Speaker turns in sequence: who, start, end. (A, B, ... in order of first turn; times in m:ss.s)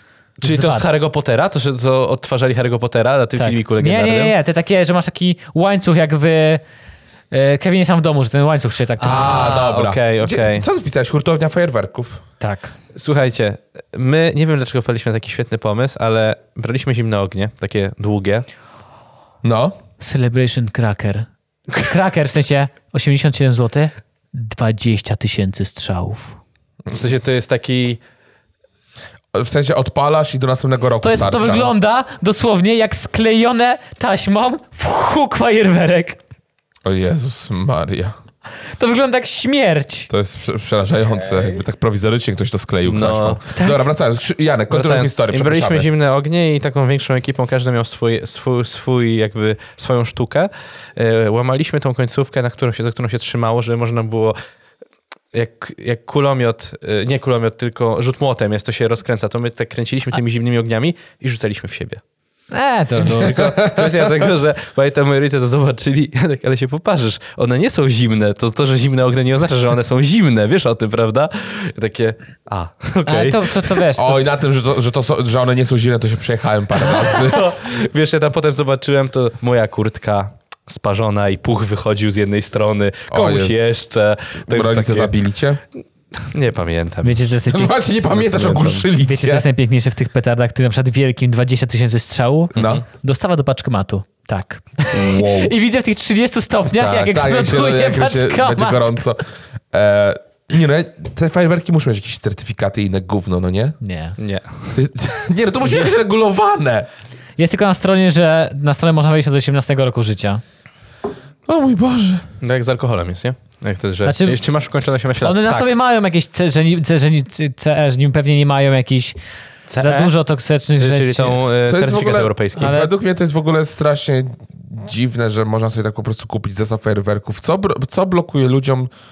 0:00.4-0:00.9 A
0:00.4-0:04.3 B
0:03.4-0:06.6 A
0:07.3-0:09.5 A
0:09.0-0:10.6 B
0:09.0-0:12.2 C
0:12.4-0:12.7 A
0:12.9-0:18.4 B
0:19.4-0:19.7 C
0:20.0-0:26.4 A
0:26.9-0:28.0 B
0:29.3-0:31.7 C
0:31.0-0:36.2 A
0:36.8-0:38.1 C
0:38.8-0:40.1 A
0:40.1-0:45.9 C
0:42.8-0:43.4 B
0:43.5-0:43.8 A
0:44.7-0:54.4 B
0:55.3-1:02.0 B
1:02.5-1:03.4 A
1:03.0-1:13.8 B
1:03.0-1:04.3 C
1:13.0-1:14.2 A
1:14.0-1:17.4 C
1:16.8-1:25.2 B
1:23.1-1:23.6 C
1:24.5-1:25.6 C
1:26.2-1:27.3 B
1:27.0-1:27.7 A
1:27.5-1:29.4 C
1:28.1-1:28.8 B
1:28.9-1:38.9 A
1:32.5-1:32.8 C
1:32.6-1:32.8 B
1:34.9-1:35.5 C
1:36.8-1:43.8 C
1:43.8-1:44.2 A
1:44.2-1:44.8 B
1:44.7-1:46.9 C
1:47.4-1:50.4 A
1:51.5-1:52.2 C
1:52.4-1:55.7 B
1:54.0-1:54.4 A
1:55.2-1:59.2 A
1:59.7-2:00.2 B
1:59.8-2:01.4 A
2:00.7-2:02.8 B
2:01.6-2:08.9 C
2:02.6-2:02.9 A